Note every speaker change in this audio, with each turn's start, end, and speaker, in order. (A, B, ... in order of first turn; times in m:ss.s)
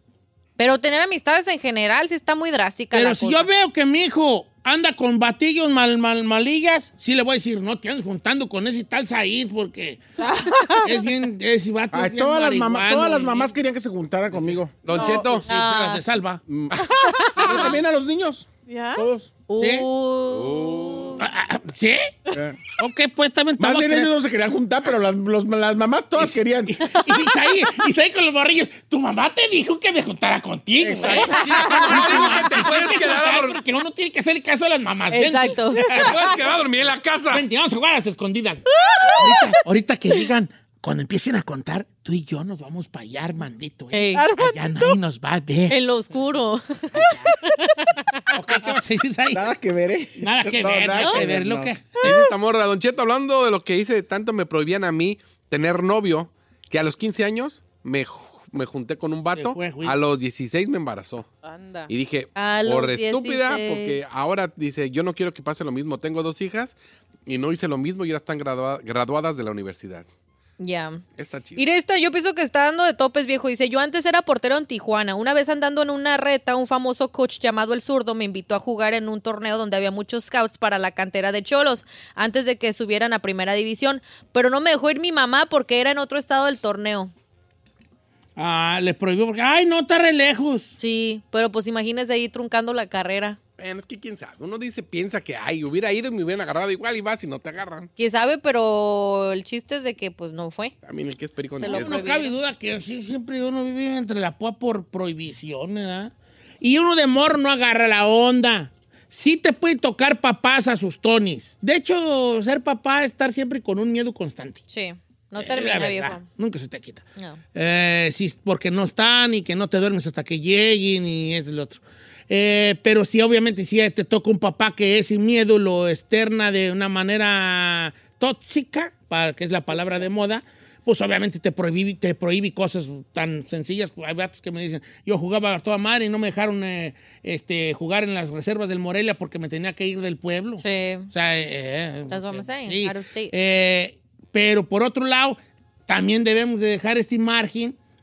0:00.6-0:03.5 A
0:02.9-0:10.0 B
0:10.2-0:11.0 C
0:10.8-0:13.5 B
0:11.9-0:15.1 D
0:14.8-0:15.4 E
0:14.9-0:15.4 C
0:15.2-0:16.4 B
0:15.5-0:16.0 A
0:16.5-0:16.8 E
0:16.7-0:17.7 C
0:17.2-0:17.7 A
0:17.4-0:19.3 D
0:18.7-0:19.1 C
0:19.5-0:21.2 A
0:19.6-0:19.9 B
0:20.3-0:21.2 E
0:21.2-0:22.1 B
0:22.3-0:22.6 D
0:22.8-0:24.1 B
0:23.6-0:26.8 D
0:26.2-0:36.4 B
0:30.8-0:31.8 D
0:31.3-0:33.6 E
0:35.1-0:35.8 A
0:35.9-0:37.4 E
0:37.3-0:45.8 B
0:38.8-0:39.3 A
0:43.9-0:44.3 A
0:44.1-0:44.8 C
0:45.7-0:46.9 A
0:46.9-0:47.3 B
0:48.3-0:49.4 B
0:49.3-0:51.7 D
0:50.2-0:52.0 B
0:52.0-1:01.3 E
0:59.3-1:00.0 B
1:01.4-1:01.9 C
1:01.9-1:10.1 E
1:02.4-1:04.0 A
1:10.6-1:11.0 A
1:11.2-1:11.6 E
1:11.6-1:27.1 A
1:28.4-1:30.7 B
1:30.8-1:33.4 A
1:33.6-1:37.9 E
1:38.0-1:40.7 A
1:40.8-1:42.0 E
1:41.6-1:42.4 A
1:41.6-1:54.6 B
1:54.7-1:56.2 A
1:55.4-2:27.8 B
2:20.6-2:21.1 A
2:22.1-2:23.3 A